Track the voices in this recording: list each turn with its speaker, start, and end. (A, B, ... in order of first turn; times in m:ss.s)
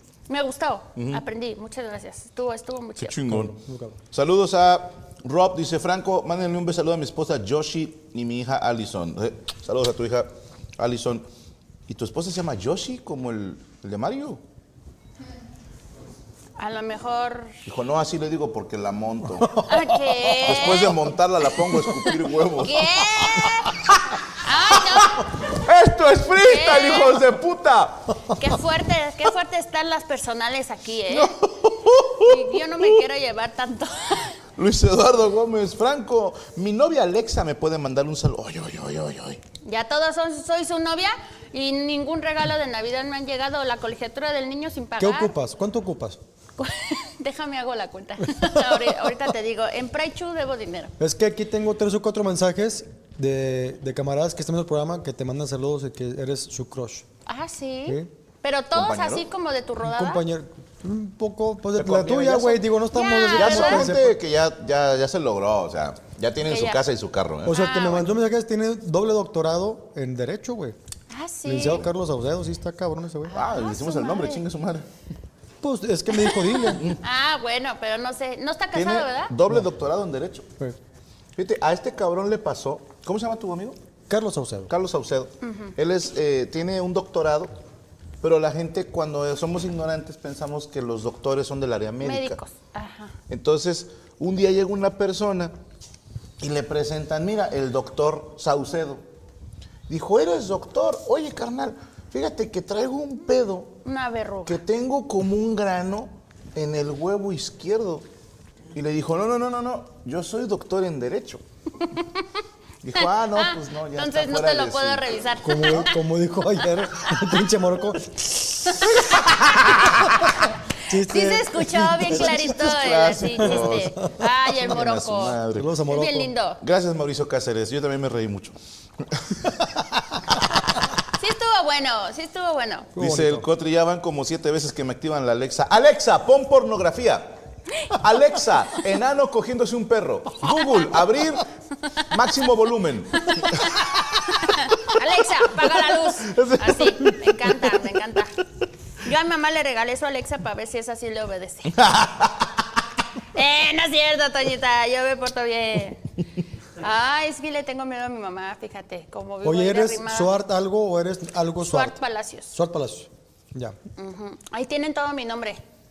0:00.3-0:03.2 A
0:01.0-0:01.2 B
0:03.0-0:11.3 B
0:03.3-0:04.0 C
0:11.9-0:14.4 B
0:16.6-0:17.5 A
0:17.7-0:19.7 B
0:19.4-0:20.5 C
0:19.7-0:21.1 A
0:20.4-0:23.9 B
0:22.1-0:23.8 A
0:24.4-0:25.3 A
0:24.9-0:28.3 B
0:26.4-0:27.2 A
0:28.4-0:31.4 A
0:31.1-0:32.9 B
0:32.2-0:34.4 A
0:34.6-0:39.4 B
0:39.6-0:45.3 A
0:45.0-0:46.2 C
0:46.6-0:50.9 A
0:51.0-0:57.1 C
0:57.3-1:00.2 A
0:58.7-0:59.3 B
0:59.8-1:04.2 C
1:01.8-1:02.7 B
1:02.9-1:03.9 A
1:03.3-1:07.6 B
1:06.5-1:06.8 A
1:07.4-1:10.8 C
1:07.5-1:08.1 A
1:11.1-1:11.9 A
1:11.4-1:13.3 C
1:13.3-1:14.4 A
1:13.3-1:14.9 B
1:15.6-1:17.0 C
1:17.0-1:19.4 A
1:18.7-1:20.5 B
1:21.4-1:23.8 B
1:24.1-1:24.7 C
1:24.7-1:27.6 B
1:25.4-1:25.7 A
1:28.2-1:32.4 B
1:32.0-1:33.2 A
1:33.3-1:35.5 B
1:36.4-1:39.0 B
1:39.9-1:43.8 B
1:43.8-1:44.6 A
1:44.5-1:48.1 B
1:48.7-1:51.4 B
1:51.9-1:52.2 A
1:52.8-1:55.9 B
1:53.3-1:56.0 A
1:55.4-1:58.9 C
1:59.2-2:00.2 B
2:00.9-2:02.6 C
2:01.0-2:06.6 A
2:02.0-2:05.7 B
2:05.5-2:06.3 C
2:06.6-2:09.6 B
2:10.3-2:10.6 B
2:11.2-2:12.9 A
2:13.0-2:13.5 C
2:13.0-2:17.4 B
2:17.9-2:21.5 B
2:22.1-2:24.4 B
2:24.4-2:28.3 A
2:25.6-2:27.6 B
2:29.0-2:31.8 A
2:31.8-2:32.6 B
2:33.3-2:36.0 A
2:36.8-2:40.3 A
2:39.4-2:42.0 C
2:41.6-2:42.5 A
2:42.5-2:43.8 C
2:44.0-2:45.6 A